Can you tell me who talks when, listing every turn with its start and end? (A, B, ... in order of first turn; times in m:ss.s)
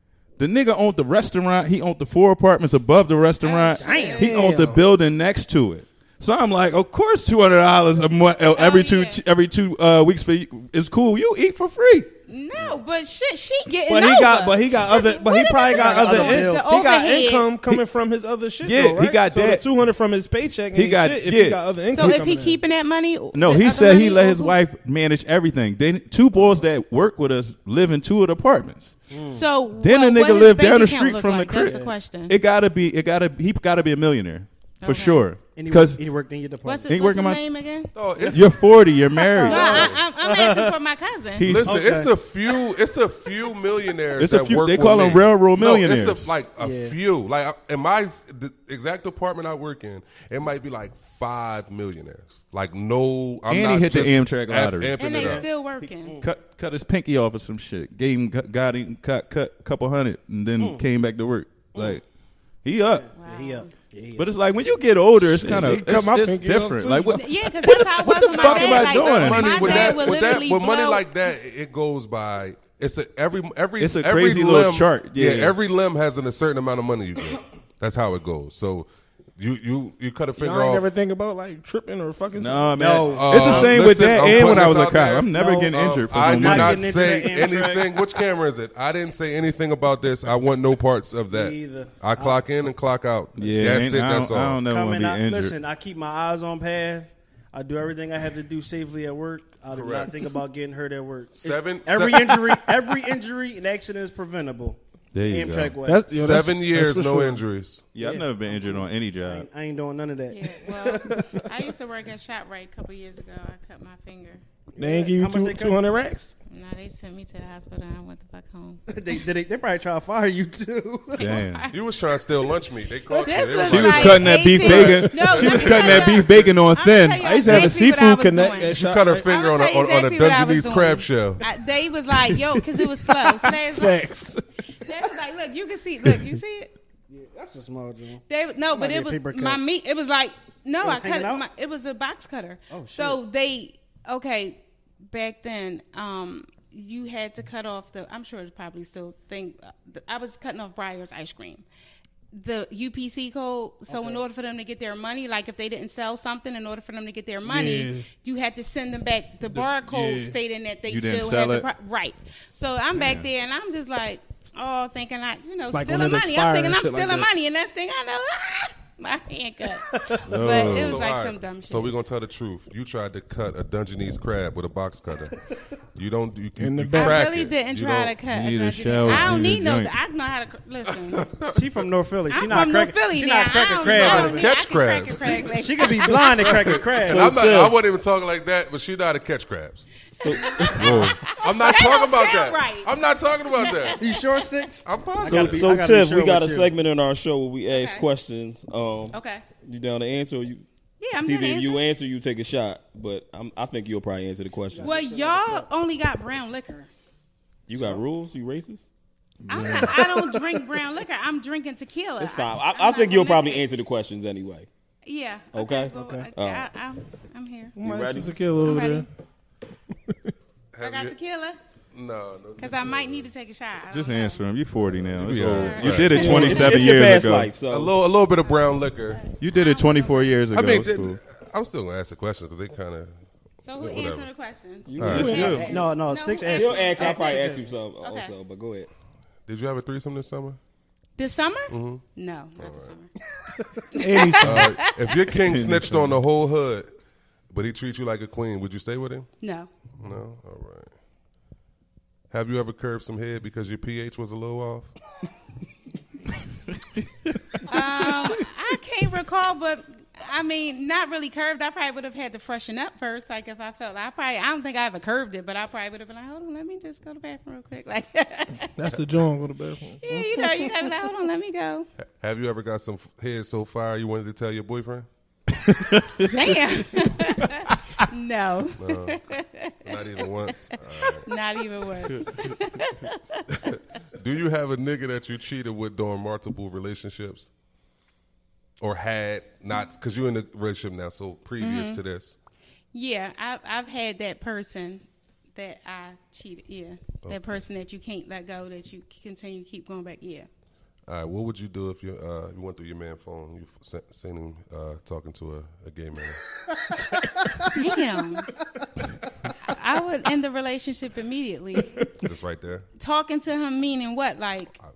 0:00.4-0:12.1 A
0:03.4-0:04.3 B
0:03.8-0:04.3 C
0:04.2-0:04.8 D
0:08.6-0:09.2 B
0:12.3-0:17.5 B
0:13.9-0:22.6 D
0:15.6-0:16.7 C
0:18.6-0:19.6 A
0:20.7-0:21.6 A
0:21.9-0:24.6 B
0:23.3-0:29.0 A
0:26.3-0:26.6 C
0:29.1-0:29.4 C
0:29.3-0:32.4 B
0:29.8-0:36.0 A
0:31.6-0:31.9 C
0:34.8-0:35.3 B
0:35.5-0:36.9 C
0:36.6-0:37.9 B
0:36.9-0:37.4 A
0:37.9-0:38.5 E
0:38.3-0:39.9 A
0:39.2-0:41.5 B
0:39.2-0:40.7 C
0:39.5-0:40.0 E
0:41.4-0:41.8 A
0:41.4-0:55.4 E
0:41.6-0:42.1 C
0:44.2-0:46.3 A
0:46.6-0:46.9 C
0:53.5-1:02.0 A
0:55.0-0:56.2 B
1:02.6-1:03.1 A
1:02.8-1:04.3 C
1:03.2-1:03.7 B
1:04.2-1:10.1 A
1:05.3-1:07.1 D
1:07.0-1:11.0 B
1:08.3-1:20.9 E
1:13.8-1:15.6 A
1:20.4-1:22.8 D
1:22.4-1:26.9 A
1:22.8-1:28.2 C
1:23.1-1:34.6 E
1:31.3-1:32.4 C
1:33.4-1:35.5 A
1:34.6-1:46.1 C
1:39.7-1:40.2 E
1:41.4-1:42.6 E
1:45.1-1:45.8 A
1:45.8-1:47.4 D
1:46.1-1:47.8 E
1:47.9-1:49.5 A
1:48.0-1:51.5 C
1:50.3-1:54.4 B
1:54.8-1:55.9 C
1:54.8-1:56.3 D
1:56.5-1:58.8 B
1:58.9-2:01.3 C
2:01.2-2:01.7 B
2:01.2-2:01.7 A
2:01.7-2:06.5 E
2:03.1-2:14.0 B
2:03.6-2:07.7 A
2:04.6-2:05.3 D
2:07.2-2:09.2 D
2:08.7-2:11.4 E
2:13.2-2:14.4 D
2:14.8-2:16.7 B
2:17.1-2:19.6 C
2:18.3-2:31.6 B
2:20.8-2:21.4 C
2:22.7-2:23.2 C
2:32.3-2:52.0 B
2:33.9-2:34.2 C
2:37.4-2:38.1 D
2:39.5-2:40.4 D
2:40.9-2:41.7 A
2:42.9-2:43.3 A
2:45.7-2:47.3 D
2:49.9-2:50.2 C
2:50.2-2:51.0 A
2:50.5-2:55.4 E
2:56.0-2:58.2 E
2:56.6-2:57.2 D
2:56.9-3:01.3 B
2:58.3-2:59.9 A
2:59.0-2:59.3 E
3:01.1-3:01.5 E
3:01.5-3:04.5 C
3:02.3-3:06.5 B
3:03.8-3:10.0 E
3:05.3-3:07.4 C
3:07.0-3:07.7 F
3:10.1-3:10.9 F
3:10.2-3:12.9 B
3:10.7-3:11.2 A
3:11.2-3:14.0 E
3:13.5-3:14.5 B
3:14.0-3:16.7 C
3:14.8-3:15.8 E
3:15.2-3:20.6 F
3:17.7-3:18.0 B
3:19.1-3:19.4 B
3:21.0-3:21.8 B
3:21.2-3:25.0 F
3:24.7-3:25.7 C
3:24.8-3:26.9 B
3:27.7-3:28.8 F
3:29.5-3:33.7 B
3:29.5-3:29.9 A
3:29.6-3:29.9 D
3:29.6-3:30.0 C
3:32.2-3:34.7 F
3:35.0-3:37.7 B
3:35.5-3:36.7 F
3:35.9-3:36.3 C
3:37.8-3:39.1 D
3:37.8-3:38.4 F
3:38.6-3:39.0 B
3:40.1-3:40.3 D
3:40.7-3:41.1 E
3:40.8-3:41.6 B
3:41.9-3:43.3 E
3:42.6-3:44.4 B
3:43.9-3:47.5 A
3:44.8-3:46.7 E
3:45.5-3:46.9 B
3:46.0-3:47.9 F
3:47.7-3:49.2 E
3:48.4-3:50.4 B
3:49.4-3:51.2 A
3:50.5-3:53.1 E
3:53.6-3:58.3 B
3:53.8-3:54.3 E
3:54.9-3:55.7 F
3:55.0-3:55.4 E
3:55.0-3:55.7 A
3:55.2-3:55.6 D
3:55.3-3:57.6 C
3:56.5-3:58.9 F
3:59.5-4:00.6 E
4:01.2-4:03.1 B
4:01.7-4:02.0 E
4:02.6-4:02.9 E
4:03.9-4:05.0 B
4:03.9-4:04.8 D
4:04.4-4:06.9 E
4:05.4-4:06.2 A
4:07.5-4:09.3 E
4:09.4-4:09.7 B
4:10.0-4:10.9 E
4:12.3-4:14.9 E
4:17.6-4:28.7 B
4:28.8-4:30.0 D
4:30.0-4:31.9 B
4:32.2-4:35.1 E
4:35.6-4:36.3 A
4:36.2-4:39.8 B
4:38.8-4:39.2 E
4:39.8-4:41.3 E
4:41.2-4:43.7 B
4:43.6-4:47.5 E
4:48.8-4:52.4 E
4:51.6-4:52.0 B
4:52.9-4:55.0 B
4:55.6-5:00.5 B
4:57.2-4:57.6 E
5:01.1-5:06.4 E
5:06.9-5:07.8 C
5:07.7-5:08.5 B
5:09.6-5:12.0 B
5:12.1-5:12.8 E
5:13.0-5:14.8 B